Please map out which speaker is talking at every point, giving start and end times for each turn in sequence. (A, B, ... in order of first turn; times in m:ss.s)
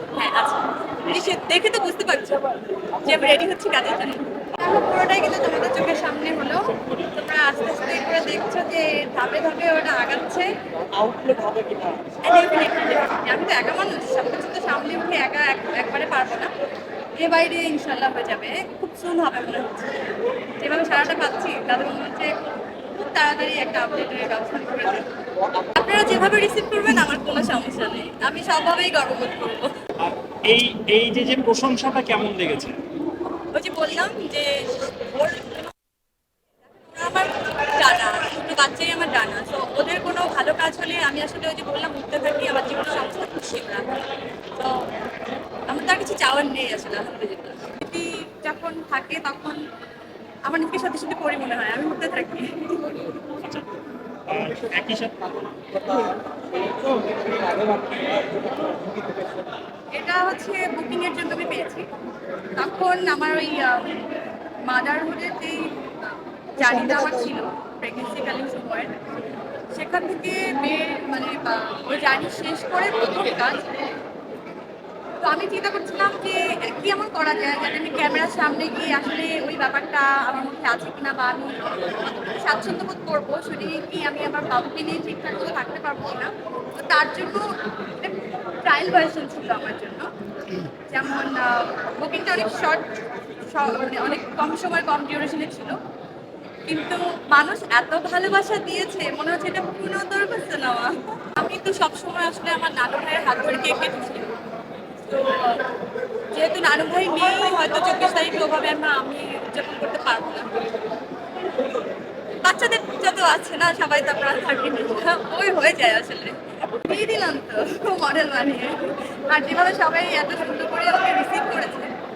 0:00.1-0:02.4 A
0:03.0-0:10.5 A
0:06.7-0:07.1 B
0:10.9-0:12.2 C
0:12.2-0:16.5 A
0:17.2-0:20.0 A
0:20.6-0:25.1 A
0:25.4-0:25.8 C
0:25.7-0:29.7 A
0:30.0-0:32.8 B
0:33.5-0:35.7 A
0:36.7-0:43.9 A
0:44.5-0:44.9 A
0:45.7-0:49.6 A
0:50.4-0:52.9 A
0:53.4-0:53.7 B
0:54.3-0:55.4 B
0:55.7-0:59.4 C
0:59.9-1:01.8 A
1:02.6-1:04.1 A
1:04.6-1:05.7 A
1:06.5-1:08.9 A
1:06.6-1:07.3 C
1:09.7-1:13.7 A
1:15.2-1:30.1 A
1:30.9-1:32.8 A
1:33.5-1:35.8 A
1:36.6-1:44.3 A
1:45.0-1:45.6 A
1:46.3-1:50.5 A
1:52.4-1:58.7 A
1:59.3-2:01.9 A